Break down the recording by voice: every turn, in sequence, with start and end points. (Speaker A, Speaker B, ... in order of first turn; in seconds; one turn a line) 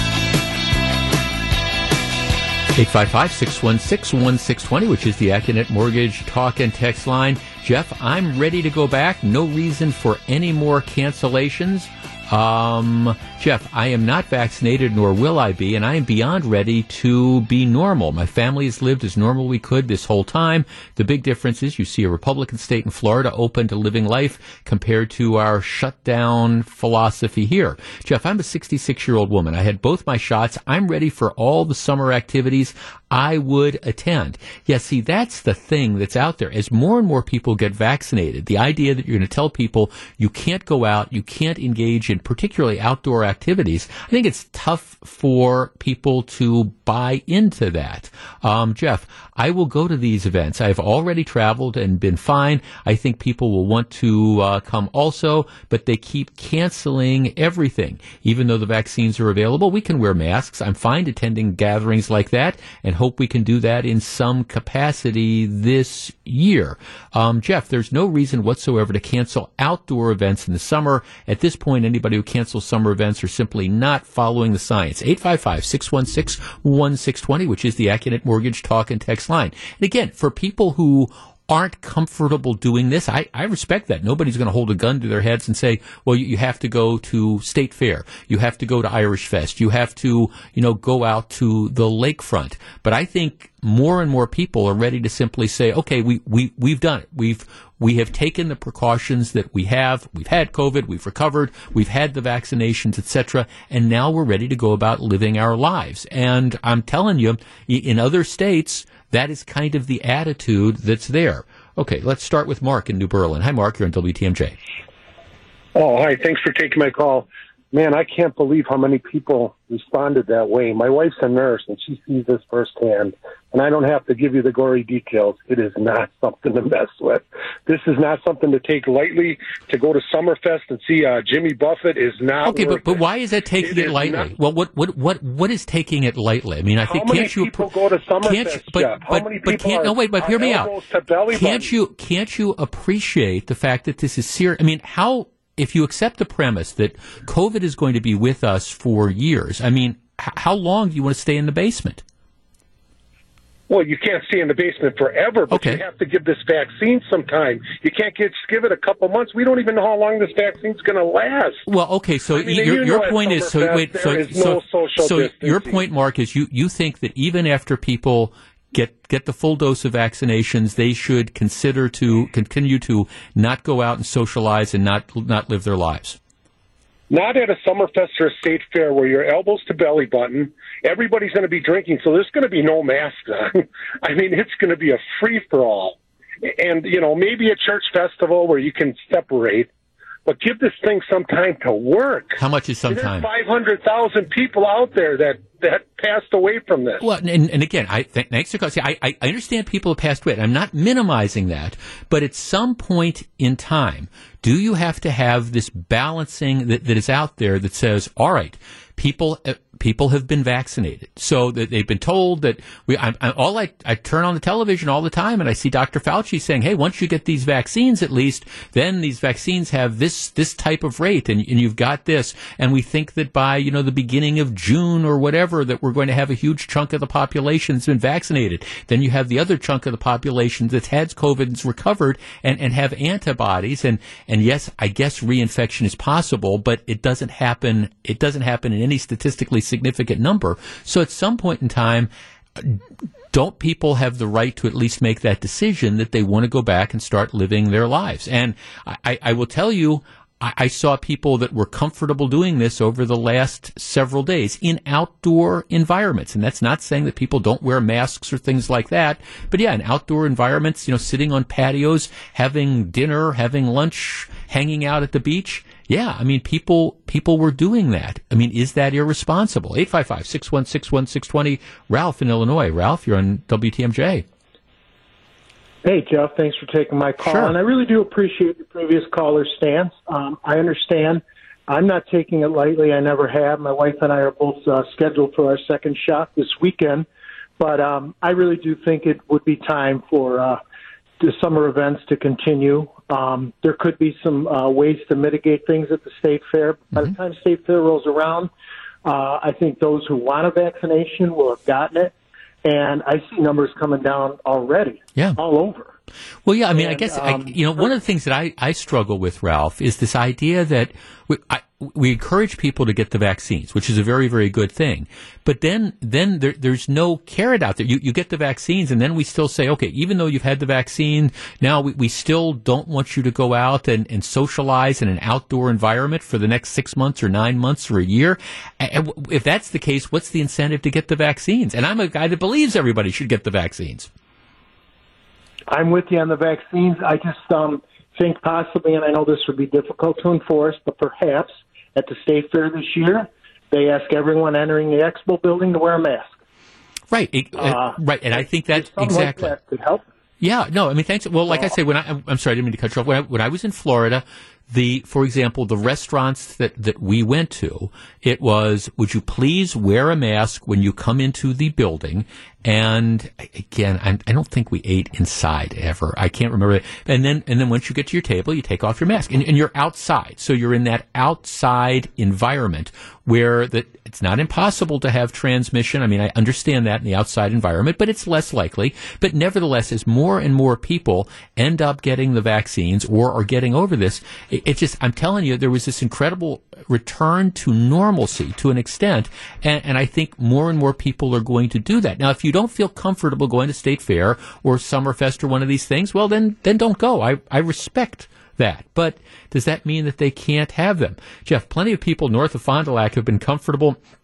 Speaker A: 2.7-114.6
Speaker B: 115.8-133.0
Speaker A: 132.4-137.7
Speaker B: 133.6-134.3
Speaker B: 136.8-141.7
Speaker A: 138.2-140.7
Speaker A: 141.3-152.0
Speaker B: 153.7-161.6
Speaker A: 155.5-155.8
Speaker A: 161.7-176.2
Speaker B: 162.3-165.8
Speaker B: 177.1-189.7
Speaker B: 190.3-197.0
Speaker A: 192.4-193.3
Speaker A: 197.0-242.8
Speaker A: 243.3-274.3
Speaker C: 275.8-287.1
Speaker A: 277.2-277.5
Speaker C: 287.6-290.6
Speaker C: 291.2-298.5
Speaker C: 299.1-302.1
Speaker C: 302.6-305.9
Speaker A: 306.5-334.1
Speaker C: 306.7-307.8
Speaker C: 335.7-346.3
Speaker A: 347.1-349.6
Speaker C: 347.6-350.0
Speaker A: 350.4-404.0